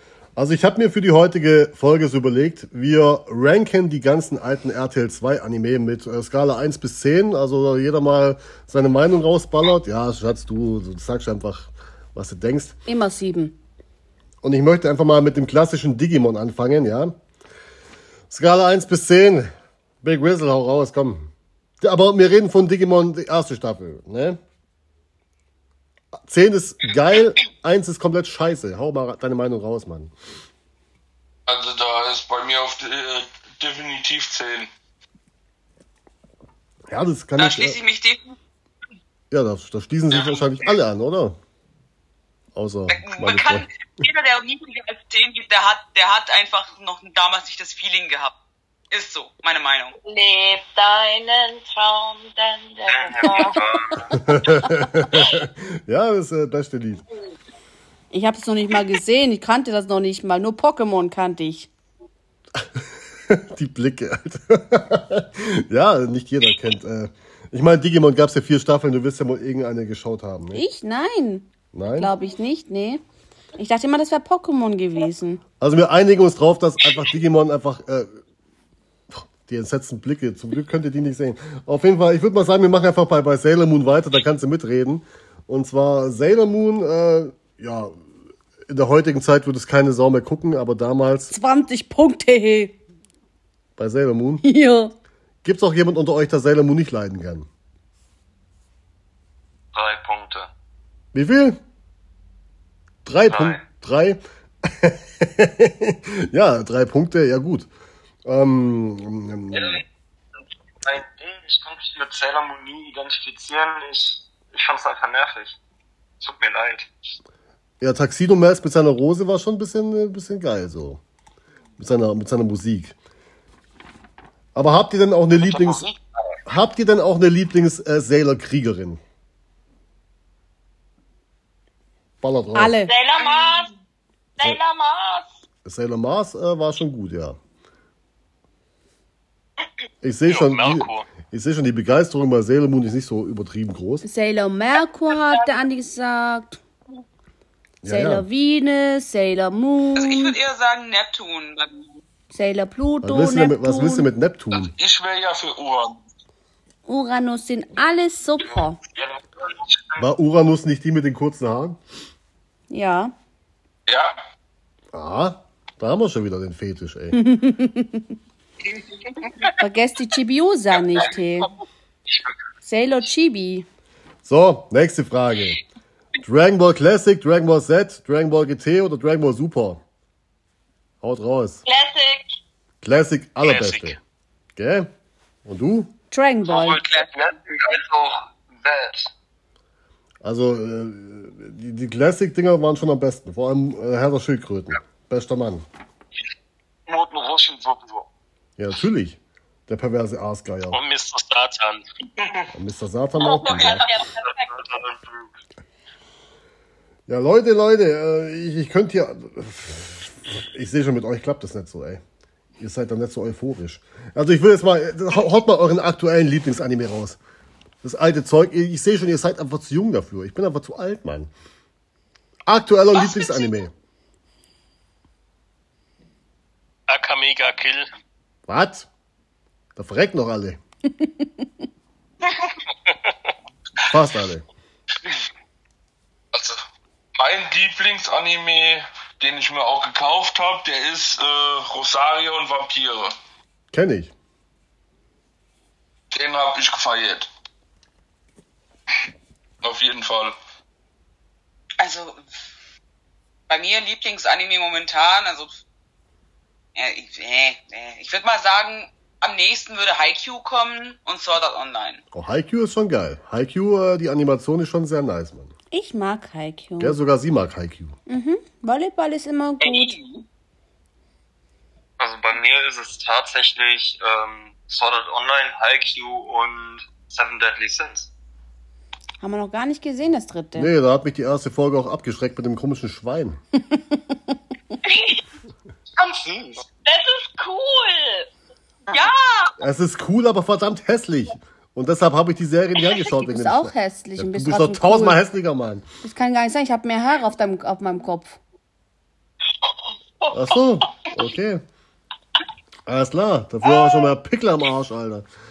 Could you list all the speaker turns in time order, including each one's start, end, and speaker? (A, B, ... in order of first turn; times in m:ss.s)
0:00.4-0:12.7 A
0:12.9-0:13.6 B
0:14.4-0:17.1 A
0:18.3-0:24.4 A
0:26.2-0:30.1 A
0:31.5-0:34.7 C
0:36.9-0:37.8 A
0:37.4-0:38.4 D
0:39.3-0:41.4 A
0:42.5-0:43.7 A
0:42.9-0:48.3 D
0:48.9-0:50.0 D
0:50.0-0:53.6 E
0:52.9-0:54.2 F
0:54.2-0:57.0 A
0:58.1-1:01.7 B
1:03.3-1:10.6 A
1:10.5-1:13.0 B
1:11.7-1:12.1 A
1:13.6-1:15.4 B
1:15.6-1:18.1 A
1:19.1-1:28.0 A
1:28.7-1:31.3 A
1:31.3-1:32.8 B
1:33.8-1:34.4 A
1:34.4-1:34.9 B
1:35.4-1:37.5 A
1:39.7-1:40.5 F
1:41.1-1:41.6 A
1:43.0-1:47.7 A
1:43.3-1:43.6 F
1:48.2-1:49.8 A
1:49.5-1:49.8 F
1:50.8-1:55.6 F
1:56.2-1:57.2 F
1:57.8-2:01.0 A
2:01.8-2:02.9 A
2:04.5-2:05.8 A
2:05.4-2:06.4 F
2:06.4-2:09.0 A
2:12.2-2:12.8 A
2:12.5-2:12.9 B
2:12.8-2:13.7 E
2:13.2-2:13.6 D
2:14.4-2:15.4 E
2:15.6-2:17.4 A
2:20.0-2:24.0 A
2:20.3-2:21.1 G
2:24.0-2:26.6 B
2:25.1-2:25.5 E
2:27.8-2:28.2 A
2:27.8-2:30.4 B
2:30.0-2:32.0 D
2:32.3-2:34.1 B
2:33.0-2:34.7 A
2:34.5-2:36.0 C
2:36.8-2:38.8 B
2:38.9-2:40.1 F
2:40.0-2:41.8 A
2:42.7-2:43.1 B
2:43.9-2:44.2 C
2:44.9-2:47.2 A
2:47.1-2:48.1 B
2:49.6-2:51.5 B
2:52.6-2:53.6 B
2:54.2-2:55.6 A
2:56.2-2:59.8 A
3:01.0-3:01.6 A
3:01.6-3:02.3 E
3:02.8-3:04.0 A
3:03.5-3:03.9 G
3:04.6-3:04.9 A
3:05.4-3:05.9 A
3:06.1-3:06.8 B
3:06.4-3:09.1 F
3:06.8-3:07.1 D
3:10.2-3:15.6 A
3:16.9-3:18.1 F
3:18.6-3:20.8 A
3:20.7-3:21.8 G
3:22.5-3:23.9 A
3:23.2-3:24.5 E
3:23.5-3:25.3 F
3:27.1-3:32.0 A
3:32.6-3:37.2 A
3:37.8-3:41.3 A
3:42.5-3:43.7 A
3:42.9-3:43.6 D
3:46.9-3:47.9 G
3:48.5-3:48.9 A
3:49.8-3:50.6 A
3:52.8-3:53.3 G
3:53.9-3:54.4 A
3:56.3-3:56.6 C
3:57.2-4:03.1 C
4:03.7-4:04.1 A
4:06.1-4:07.3 C
4:09.6-4:10.3 C
4:11.8-4:12.4 D
4:13.5-4:15.6 D
4:16.7-4:22.0 D
4:22.1-4:25.5 A
4:25.7-4:27.0 B
4:26.8-4:27.9 A
4:28.1-4:29.9 B
4:29.6-4:30.2 D
4:32.0-4:38.1 F
4:39.2-4:40.7 B
4:40.5-4:43.4 A
4:43.7-4:44.2 B
4:44.8-4:45.2 E
4:46.0-4:46.6 F
4:46.8-4:48.3 E
4:48.9-4:49.5 D
4:49.6-4:55.8 A
4:53.1-4:55.2 B
4:56.0-4:58.4 B
4:59.6-5:00.4 E
5:00.3-5:01.6 A
5:02.9-5:05.2 A
5:03.7-5:04.0 E